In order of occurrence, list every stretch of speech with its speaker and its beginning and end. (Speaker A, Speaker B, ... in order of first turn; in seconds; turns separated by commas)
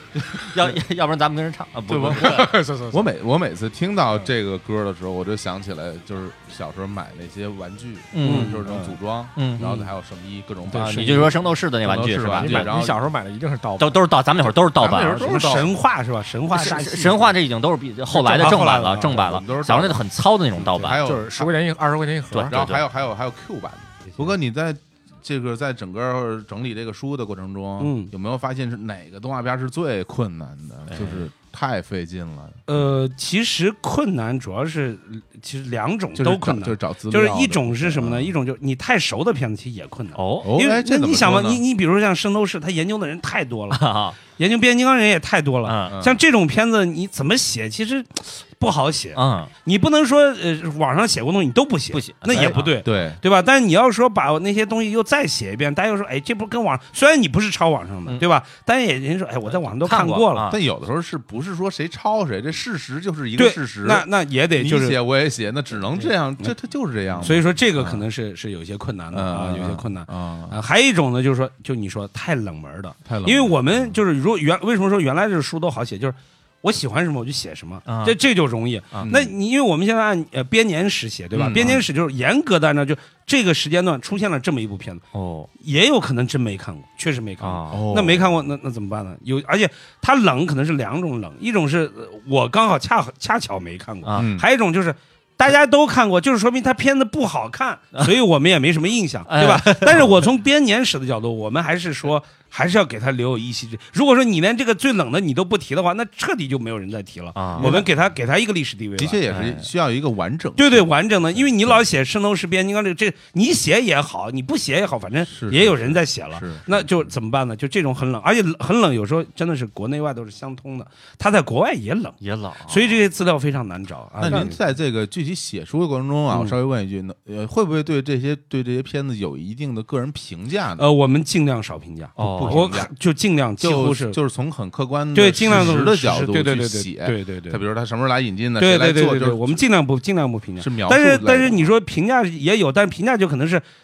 Speaker A: 0.2-2.5, Speaker B: 1.9-13.0, Speaker C: 2.2-3.1, Speaker A: 8.1-8.7, Speaker D: 8.2-8.8, Speaker A: 9.3-9.8, Speaker D: 10.7-11.2, Speaker A: 10.7-12.7, Speaker C: 12.3-14.1, Speaker A: 13.8-15.4, Speaker B: 14.7-15.7, Speaker C: 14.9-15.6, Speaker D: 15.2-17.4, Speaker A: 16.5-21.0, Speaker D: 18.1-19.2, Speaker B: 18.8-20.0, Speaker B: 20.6-21.6, Speaker C: 21.0-22.6, Speaker A: 22.3-22.8, Speaker B: 22.5-32.6, Speaker D: 27.8-28.1, Speaker A: 30.9-31.2, Speaker D: 32.7-60.5, Speaker B: 36.1-38.3, Speaker A: 40.1-40.5, Speaker B: 40.4-41.6, Speaker A: 43.7-44.2, Speaker A: 45.6-46.0, Speaker B: 45.9-46.2, Speaker A: 49.1-49.5, Speaker A: 51.9-52.7, Speaker B: 52.3-53.2, Speaker A: 59.8-60.6, Speaker B: 60.4-68.0, Speaker D: 63.4-65.0, Speaker D: 67.2-85.0, Speaker B: 69.1-70.6, Speaker B: 73.0-74.0, Speaker A: 77.8-78.2, Speaker B: 79.0-79.3, Speaker B: 81.3-81.8, Speaker A: 85.1-85.5, Speaker D: 85.6-109.2, Speaker A: 87.4-87.8, Speaker B: 87.7-88.4, Speaker B: 94.1-94.4, Speaker A: 99.3-100.1, Speaker A: 107.3-107.8, Speaker B: 107.6-107.9, Speaker B: 109.0-111.8, Speaker A: 109.3-109.7, Speaker D: 110.6-124.5, Speaker B: 115.3-117.1, Speaker A: 122.2-123.0, Speaker B: 124.2-130.9, Speaker D: 126.3-126.5, Speaker D: 130.8-134.2, Speaker A: 132.2-132.7, Speaker B: 132.2-132.9, Speaker B: 133.6-139.6, Speaker D: 135.1-137.6, Speaker D: 138.6-143.6, Speaker B: 140.6-141.7